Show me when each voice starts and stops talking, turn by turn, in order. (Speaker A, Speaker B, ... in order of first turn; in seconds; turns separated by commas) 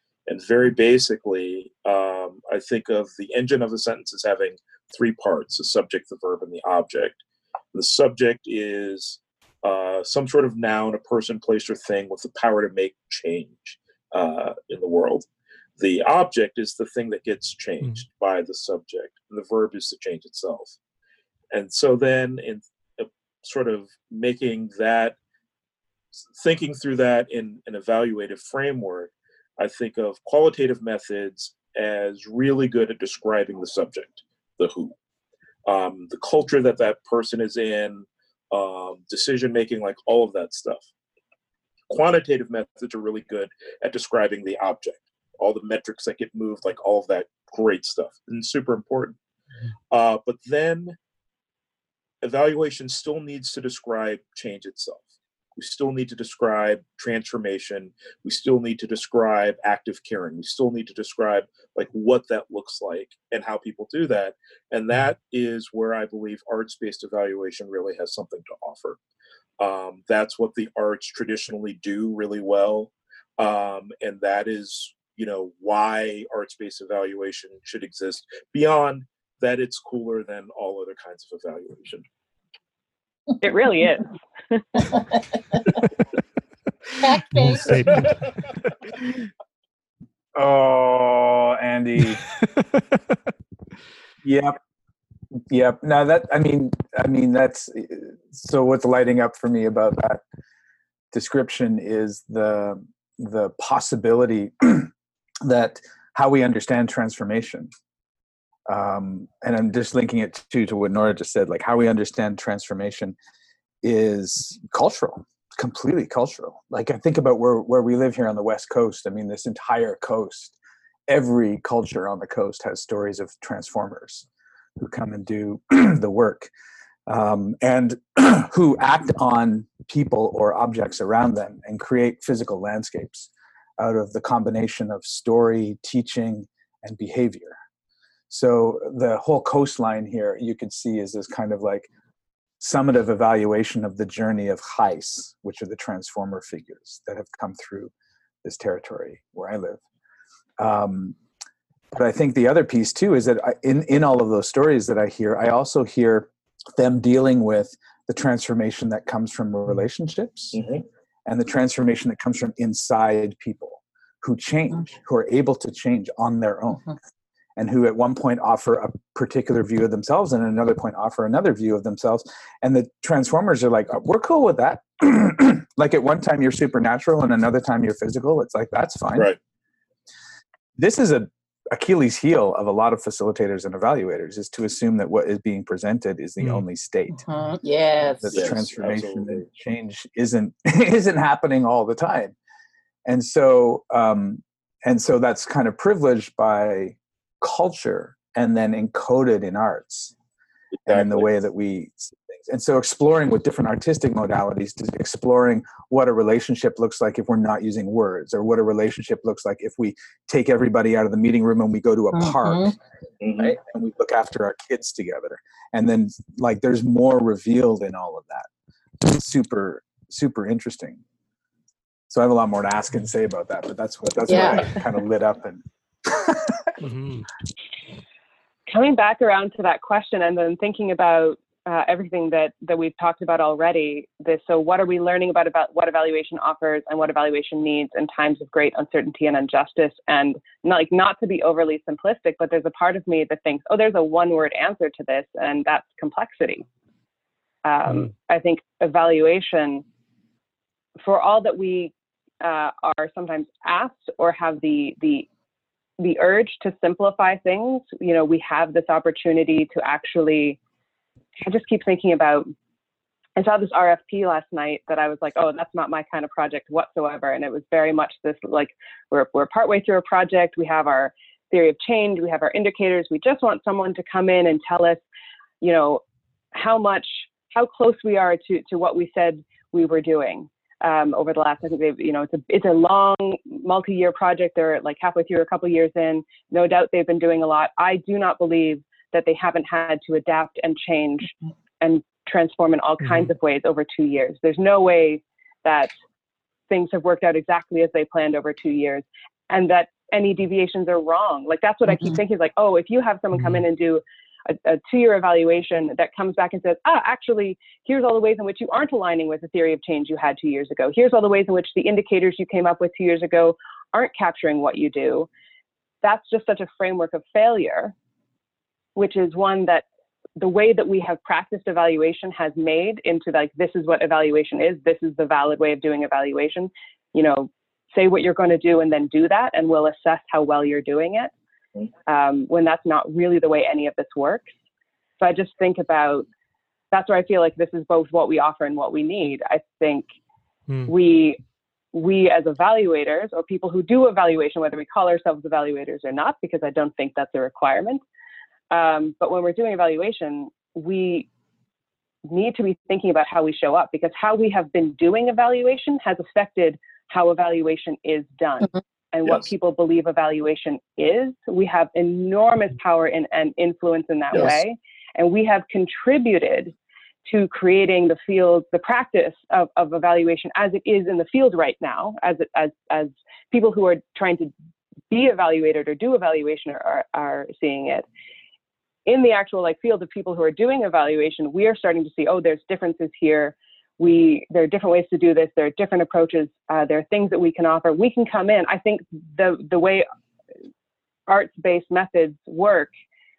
Speaker A: 0.3-7.2, Speaker A: 7.7-15.3, Speaker A: 15.8-20.8, Speaker A: 21.5-25.2, Speaker A: 26.3-35.0, Speaker A: 35.7-40.9, Speaker A: 41.9-49.2, Speaker A: 49.9-51.0, Speaker A: 52.2-69.0, Speaker A: 69.6-82.0, Speaker B: 83.4-84.8, Speaker C: 84.9-85.2, Speaker C: 87.0-88.0, Speaker D: 87.3-88.4, Speaker A: 87.7-88.2, Speaker E: 90.4-92.2, Speaker D: 92.1-92.8, Speaker E: 94.2-94.6, Speaker E: 95.4-100.2, Speaker E: 101.1-104.9, Speaker E: 105.5-107.7, Speaker E: 108.7-113.2, Speaker E: 113.8-120.6, Speaker E: 121.1-124.3, Speaker E: 124.8-126.5, Speaker E: 127.1-137.6, Speaker E: 138.3-141.9, Speaker E: 142.6-147.9, Speaker E: 148.4-149.8, Speaker E: 150.6-151.2, Speaker E: 151.9-160.6, Speaker A: 160.5-160.8, Speaker E: 161.3-166.9, Speaker E: 167.6-179.3, Speaker E: 180.8-187.2, Speaker C: 187.2-188.5, Speaker E: 188.2-192.3, Speaker A: 188.3-189.5, Speaker E: 193.1-200.1, Speaker A: 200.8-201.3, Speaker E: 200.9-212.8, Speaker C: 212.1-212.8, Speaker A: 213.2-213.5, Speaker E: 213.4-218.5, Speaker E: 219.0-221.0, Speaker E: 222.1-226.8, Speaker C: 224.3-224.8, Speaker D: 226.8-227.3, Speaker B: 228.7-246.7, Speaker B: 247.7-249.8, Speaker B: 251.0-255.3, Speaker B: 256.0-260.6, Speaker B: 261.4-262.5, Speaker B: 263.4-275.0, Speaker B: 275.6-276.0, Speaker B: 276.5-295.9, Speaker D: 293.0-293.3, Speaker B: 296.7-315.3, Speaker D: 303.3-303.6, Speaker B: 316.0-317.9, Speaker B: 319.0-319.9, Speaker B: 320.4-331.3, Speaker B: 332.1-334.5, Speaker B: 335.2-336.3, Speaker B: 336.9-340.1, Speaker B: 340.9-341.4, Speaker B: 341.9-348.0, Speaker B: 348.7-351.3, Speaker B: 352.3-366.7, Speaker A: 364.3-364.6, Speaker B: 367.3-374.5, Speaker B: 375.1-378.1, Speaker B: 379.1-390.1, Speaker B: 391.3-392.9